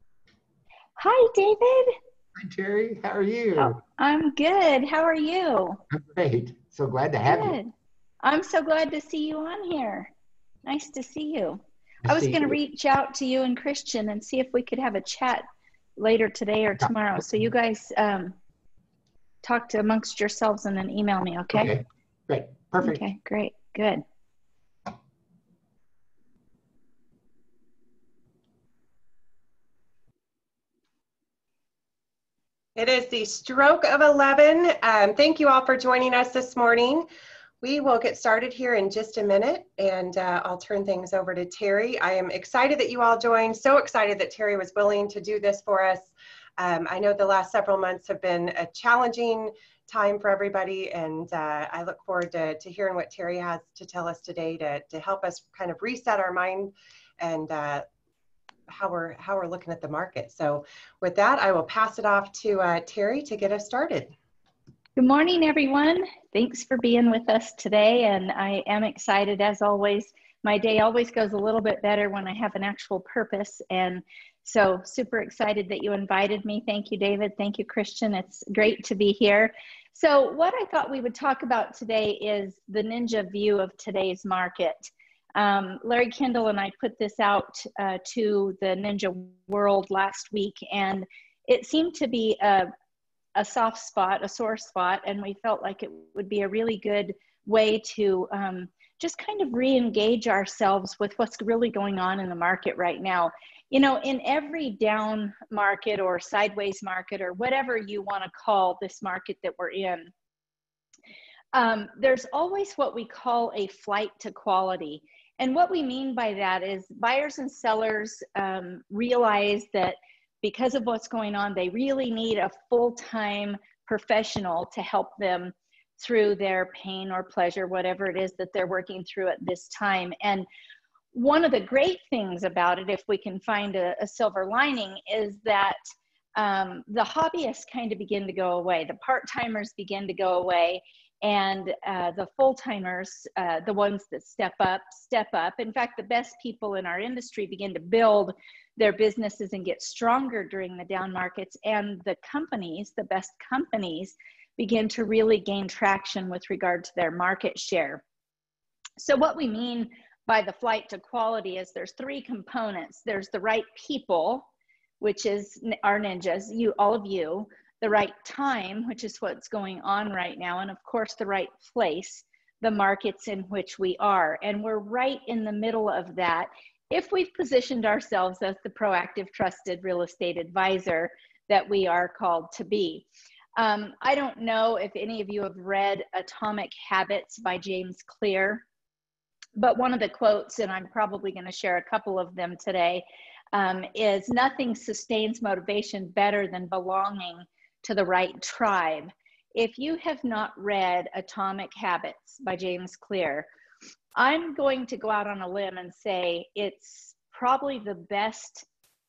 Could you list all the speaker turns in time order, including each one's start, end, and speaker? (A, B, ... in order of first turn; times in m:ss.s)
0:01.0-0:02.0 A
0:02.4-0:03.8 B
0:03.6-0:05.8 A
0:05.9-0:07.6 B
0:07.2-0:10.1 A
0:10.6-0:15.4 A
0:12.0-0:12.6 B
0:16.0-0:18.4 A
0:19.4-0:21.7 A
0:21.5-0:23.0 B
0:22.8-0:24.0 A
0:32.8-0:37.1 C
0:37.6-0:57.9 C
0:58.7-1:04.1 C
1:05.0-1:32.7 A
1:33.4-1:50.1 A
1:51.5-2:10.5 A
2:11.1-2:15.8 A
2:16.4-2:38.0 A
2:39.0-2:44.5 A
2:45.0-3:08.6 A
3:09.6-3:23.5 A
3:24.2-3:28.7 A